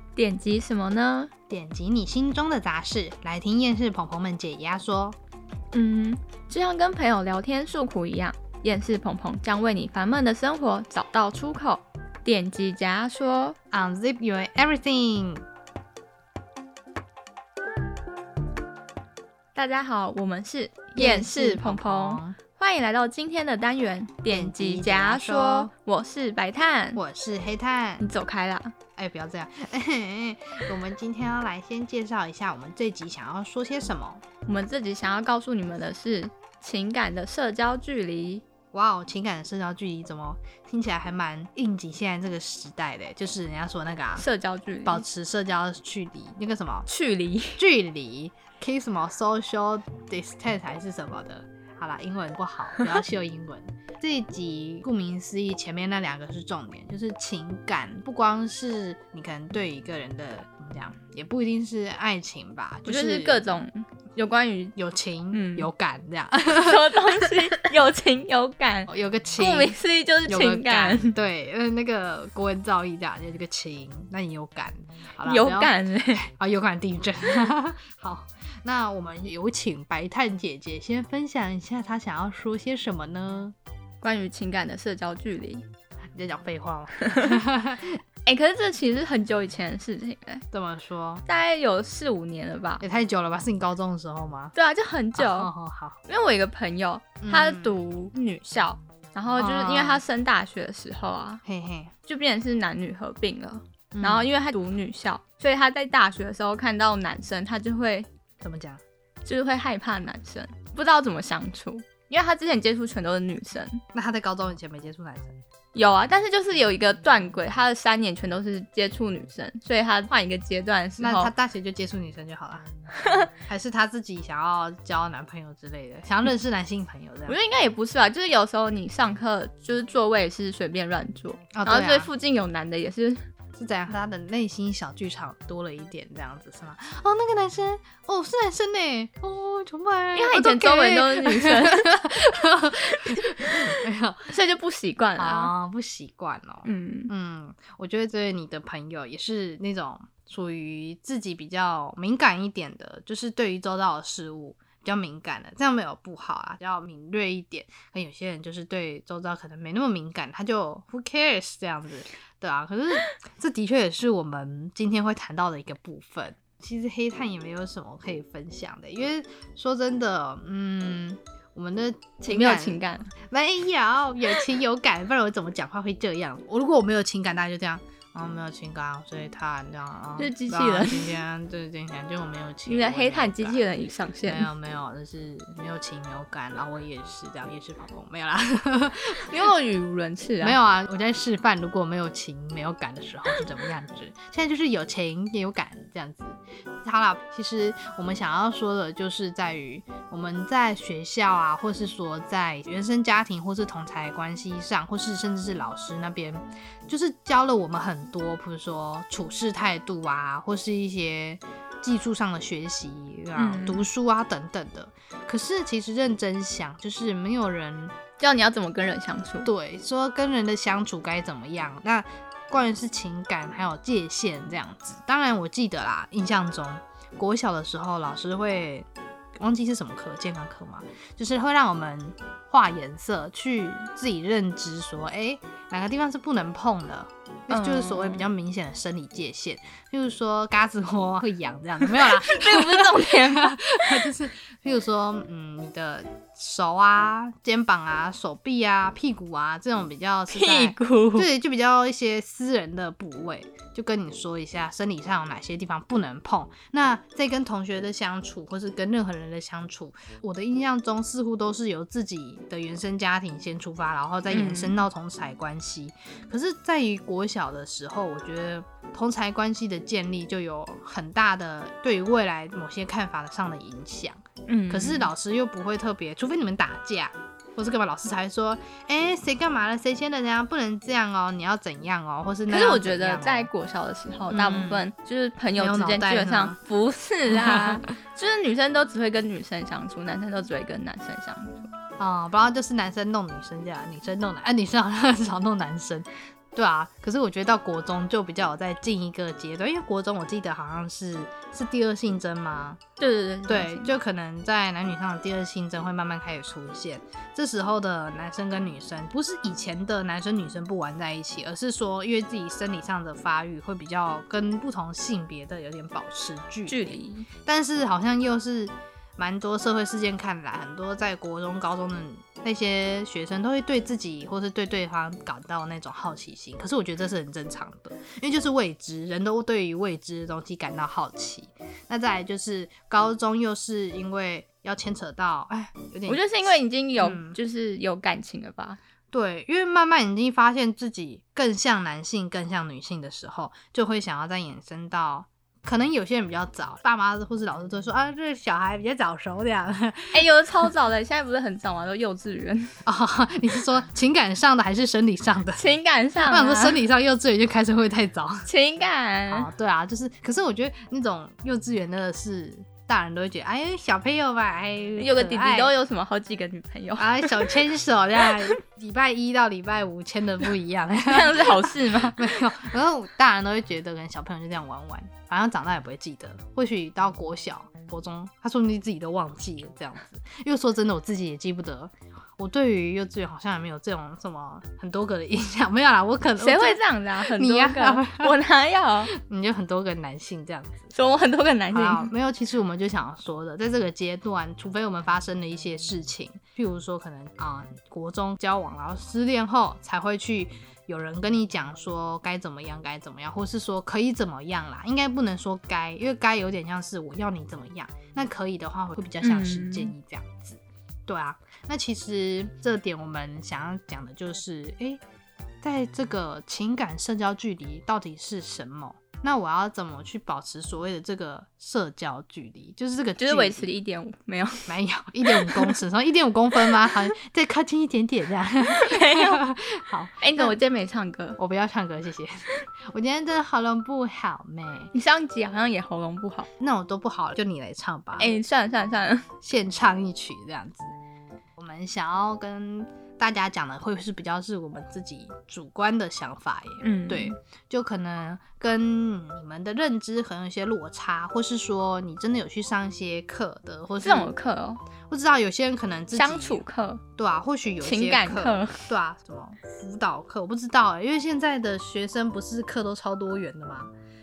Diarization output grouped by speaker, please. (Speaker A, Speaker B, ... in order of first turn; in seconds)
Speaker A: 0.2-1.3, 5.7-13.6, 19.6-27.0, 28.0-28.8, 34.5-38.4, 44.2-45.0, 46.9-47.6, 62.9-64.8, 65.3-65.7, 66.3-71.2, 75.3-76.2, 84.0-85.6, 87.0-87.4, 88.3-90.4, 91.3-92.8, 94.5-95.5, 96.1-101.4, 102.1-108.1, 109.2-113.8, 115.7-121.3, 123.0-123.3, 127.3-133.2, 140.2-142.1, 142.9-143.7, 144.3-145.5, 146.7-147.1, 172.2-173.1, 180.2-181.2, 182.7-184.5, 189.2-190.6, 213.4-213.9, 218.2-219.5, 237.5-238.3, 241.9-244.1, 250.3-251.3, 264.3-264.8, 274.5-275.1, 282.5-291.7, 303.0-304.0, 316.7-317.3, 336.1-338.8, 350.1-352.8, 355.6-356.8, 358.5-359.5, 365.0-367.5, 371.1-372.3, 386.4-389.1, 390.9-392.1, 409.2-409.9, 423.2-424.7, 425.3-425.7, 426.7-426.9, 428.8-429.4, 430.2-431.4, 434.9-436.5, 438.2-439.3, 446.8-447.3, 454.0-454.8, 456.1-457.0, 457.8-458.8
Speaker B: 1.5-5.2, 13.7-15.4, 20.9-22.4, 24.3-25.7, 26.9-28.1, 29.0-34.2, 38.7-44.3, 44.9-46.9, 47.6-63.4, 64.8-67.7, 68.9-83.5, 86.2-88.0, 90.5-91.2, 92.8-94.5, 95.2-96.0, 97.2-97.8, 99.3-100.0, 101.4-101.9, 103.9-104.3, 108.4-108.8, 113.9-115.4, 121.0-122.7, 123.5-127.4, 131.5-132.1, 133.6-144.3, 145.2-183.7, 184.3-189.3, 190.4-218.0, 219.4-283.5, 284.3-284.9, 285.6-286.6, 287.3-287.8, 292.0-302.8, 303.5-336.2, 337.0-337.4, 339.1-350.2, 352.9-355.6, 356.2-358.5, 359.3-365.7, 367.0-388.3, 389.1-390.9, 391.7-415.0, 415.6-423.7, 424.7-430.6, 431.4-434.9, 436.6-438.4, 439.4-440.9, 441.6-454.3, 455.1-456.6, 457.2-463.9